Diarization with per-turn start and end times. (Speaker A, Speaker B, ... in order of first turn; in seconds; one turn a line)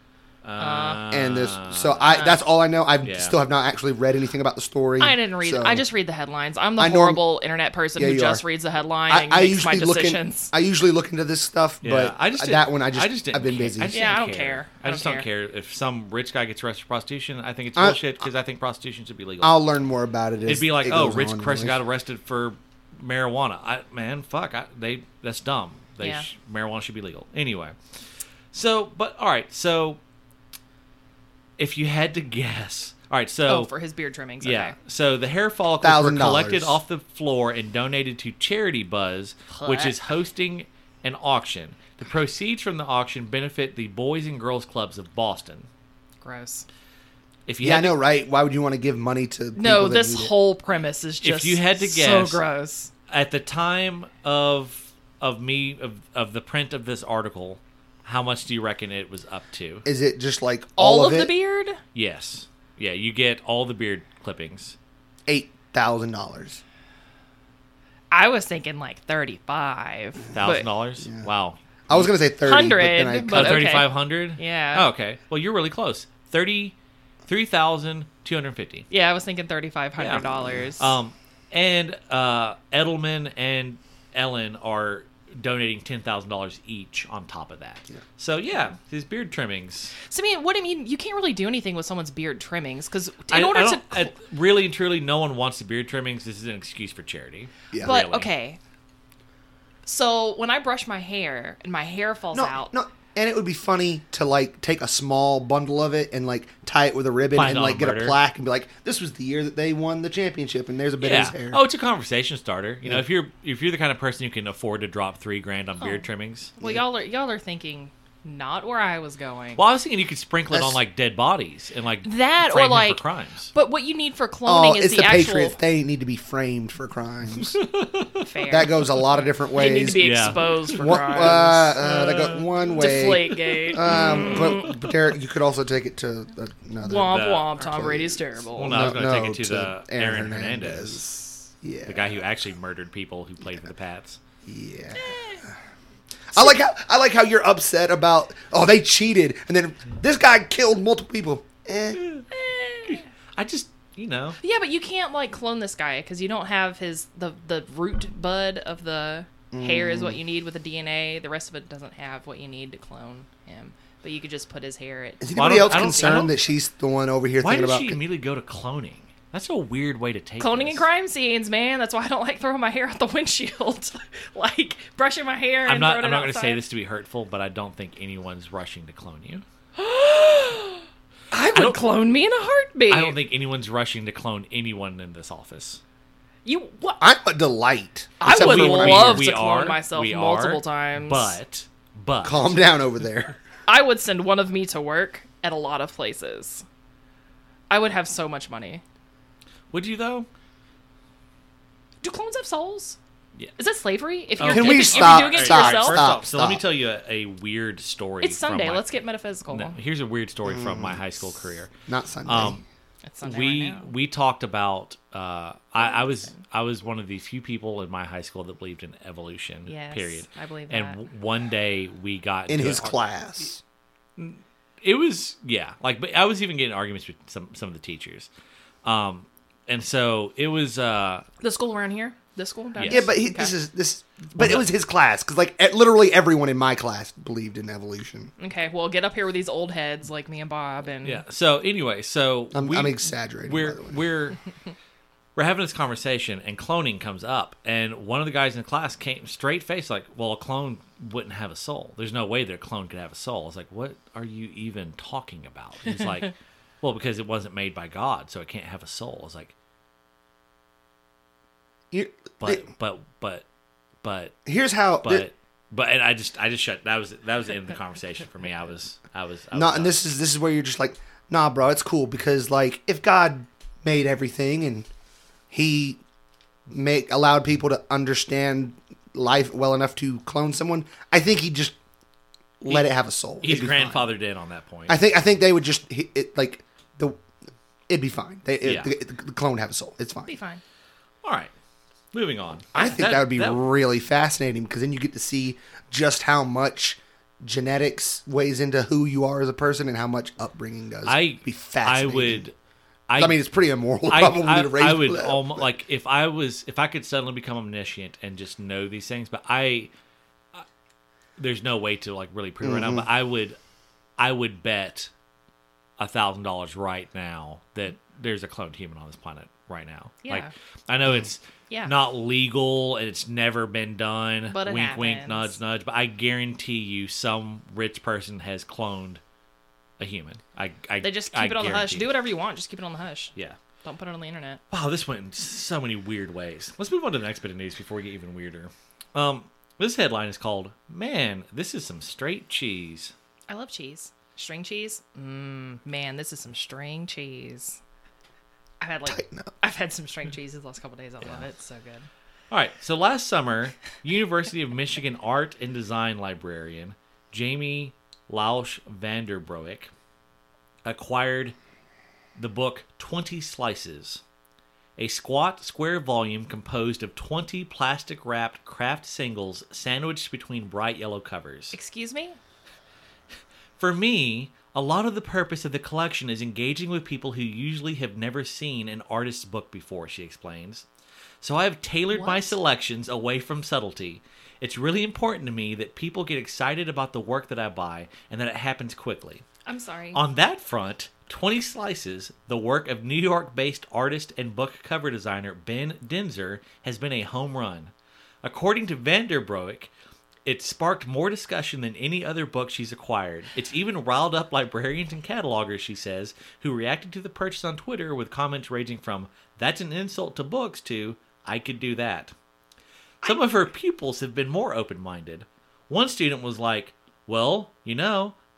Speaker A: 0.4-2.4
Speaker B: 0.6-1.0
Speaker C: 1.1-5.8
Speaker B: 2.1-2.4
Speaker A: 3.0-3.4
Speaker B: 5.0-10.5
Speaker C: 6.8-7.2
Speaker C: 8.0-8.4
Speaker C: 9.1-14.0
Speaker A: 11.8-19.6
Speaker B: 13.9-15.3
Speaker C: 17.8-18.0
Speaker C: 19.4-21.8
Speaker A: 20.5-27.8
Speaker B: 26.0-26.3
Speaker A: 28.5-30.0
Speaker A: 31.6-33.7
Speaker B: 33.5-34.8
Speaker A: 34.4-45.7
Speaker C: 35.8-36.8
Speaker B: 39.5-40.0
Speaker B: 46.2-46.7
Speaker A: 47.5-48.0
Speaker C: 47.6-50.3
Speaker B: 49.6-52.9
Speaker A: 51.2-52.4
Speaker A: 53.1-59.9
Speaker C: 59.9-61.3
Speaker B: 60.8-61.8
Speaker A: 62.0-64.8
Speaker C: 65.3-66.6
Speaker B: 68.1-70.7
Speaker A: 70.3-72.1
Speaker C: 71.0-71.3
Speaker C: 71.9-73.8
Speaker B: 72.4-74.9
Speaker A: 73.3-76.8
Speaker A: 77.3-78.9
Speaker B: 78.9-80.9
Speaker A: 80.0-90.0
Speaker C: 80.3-80.6
Speaker B: 90.0-94.1
Speaker A: 93.3-98.3
Speaker C: 97.7-98.0
Speaker B: 97.8-98.6
Speaker B: 99.8-102.7
Speaker C: 102.3-111.6
Speaker A: 107.3-108.2
Speaker A: 111.0-116.5
Speaker B: 115.8-119.6
Speaker A: 119.6-123.5
Speaker C: 120.5-120.8
Speaker B: 122.0-125.6
Speaker C: 124.5-127.6
Speaker A: 127.4-128.3
Speaker B: 128.2-134.8
Speaker C: 128.5-142.2
Speaker A: 129.9-131.2
Speaker A: 131.8-134.9
Speaker B: 136.8-138.8
Speaker A: 136.9-137.6
Speaker A: 138.6-141.1
Speaker A: 141.9-144.2
Speaker C: 144.4-145.2
Speaker B: 144.9-145.4
Speaker C: 146.3-152.0
Speaker A: 151.9-152.3
Speaker B: 152.3-153.1
Speaker A: 152.9-154.4
Speaker B: 154.4-166.3
Speaker C: 159.5-160.2
Speaker C: 165.2-168.0
Speaker A: 165.4-166.3
Speaker A: 167.4-170.8
Speaker B: 170.4-176.6
Speaker A: 175.7-179.4
Speaker B: 179.8-183.2
Speaker A: 181.5-181.9
Speaker A: 182.9-185.8
Speaker B: 186.4-187.0
Speaker C: 187.0-189.3
Speaker B: 188.2-191.4
Speaker A: 188.2-192.6
Speaker C: 192.2-193.4
Speaker B: 193.7-196.7
Speaker B: 197.7-198.8
Speaker A: 199.7-200.3
Speaker B: 202.0-203.0
Speaker B: 203.6-206.1
Speaker A: 204.4-208.8
Speaker C: 204.5-206.6
Speaker B: 208.2-209.8
Speaker A: 209.5-211.7
Speaker C: 210.4-211.0
Speaker C: 211.9-212.6
Speaker A: 212.3-212.6
Speaker B: 213.0-213.9
Speaker A: 213.2-223.0
Speaker B: 215.8-216.4
Speaker B: 219.7-221.0
Speaker C: 222.5-223.6
Speaker A: 224.2-228.3
Speaker A: 228.8-231.3
Speaker B: 231.4-233.5
Speaker A: 232.8-233.1
Speaker C: 232.9-238.3
Speaker A: 234.4-234.7
Speaker B: 238.4-241.2
Speaker A: 241.0-244.4
Speaker C: 242.5-244.0
Speaker A: 245.4-259.5
Speaker C: 261.9-262.6
Speaker A: 262.4-263.4
Speaker A: 264.0-264.4
Speaker C: 264.5-265.3
Speaker A: 265.0-270.0
Speaker C: 269.5-274.9
Speaker C: 275.5-276.0
Speaker C: 276.7-281.8
Speaker C: 282.6-284.1
Speaker A: 283.4-285.0
Speaker C: 284.9-287.2
Speaker C: 287.9-290.3
Speaker A: 288.6-288.9
Speaker B: 290.3-290.6
Speaker A: 291.2-291.5
Speaker A: 292.1-293.6
Speaker C: 292.8-302.4
Speaker A: 301.1-302.5
Speaker A: 303.1-303.4
Speaker C: 303.2-305.7
Speaker A: 304.1-309.9
Speaker A: 311.4-313.6
Speaker C: 312.6-313.1
Speaker A: 314.2-315.1
Speaker A: 316.0-329.2
Speaker B: 320.2-320.5
Speaker B: 324.5-325.6
Speaker A: 330.0-332.1
Speaker B: 331.0-333.3
Speaker B: 333.8-334.6
Speaker A: 334.7-343.1
Speaker B: 343.5-347.8
Speaker B: 348.8-352.1
Speaker C: 349.1-349.5
Speaker A: 352.5-359.9
Speaker A: 360.9-361.6
Speaker A: 362.4-364.2
Speaker A: 365.0-371.8
Speaker B: 371.7-372.4
Speaker A: 373.8-380.9
Speaker A: 381.4-389.4
Speaker B: 382.1-382.6
Speaker B: 389.7-390.2
Speaker A: 390.1-397.9
Speaker A: 398.4-399.9
Speaker A: 400.4-412.3
Speaker A: 413.2-418.4